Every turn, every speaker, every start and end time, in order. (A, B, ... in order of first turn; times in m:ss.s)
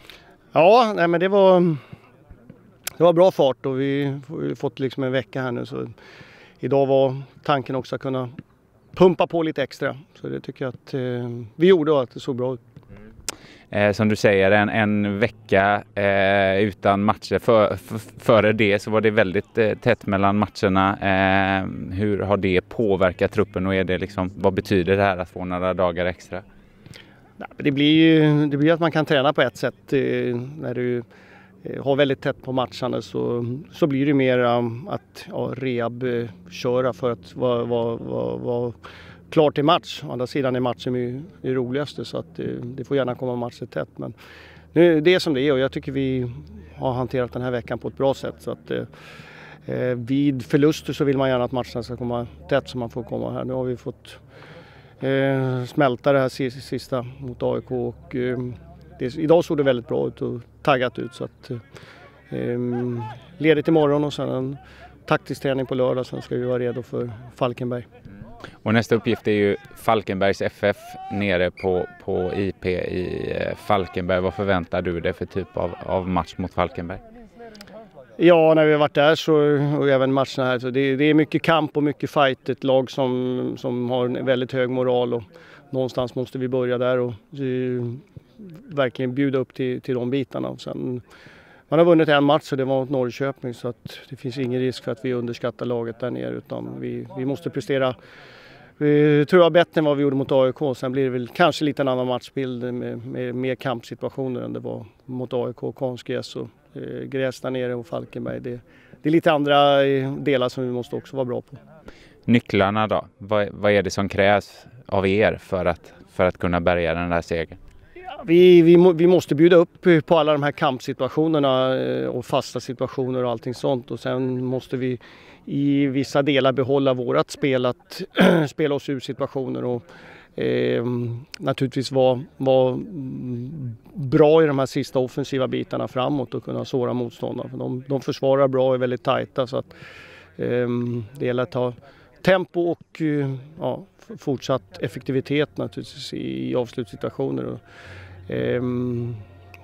0:00.5-0:01.8 A
0:03.0-0:05.9 A
0:06.6-0:08.3 A
0:09.0-0:12.6 A
0:13.7-0:26.4 B
0:27.4-0:31.0 A
0:31.6-0:38.8 A
0:39.3-0:44.1 A
0:44.7-0:48.9 A
0:49.7-0:54.2 A
0:55.0-1:01.6 A
1:02.3-1:07.9 A
1:08.6-1:17.0 B
1:18.2-1:28.0 A
1:28.6-1:31.0 A
1:31.7-1:38.0 A
1:38.8-1:51.6 A
1:52.3-1:57.6 B
1:58.1-2:09.8 A
2:10.4-2:19.7 A
2:20.4-2:27.6 A
2:28.3-2:29.2 A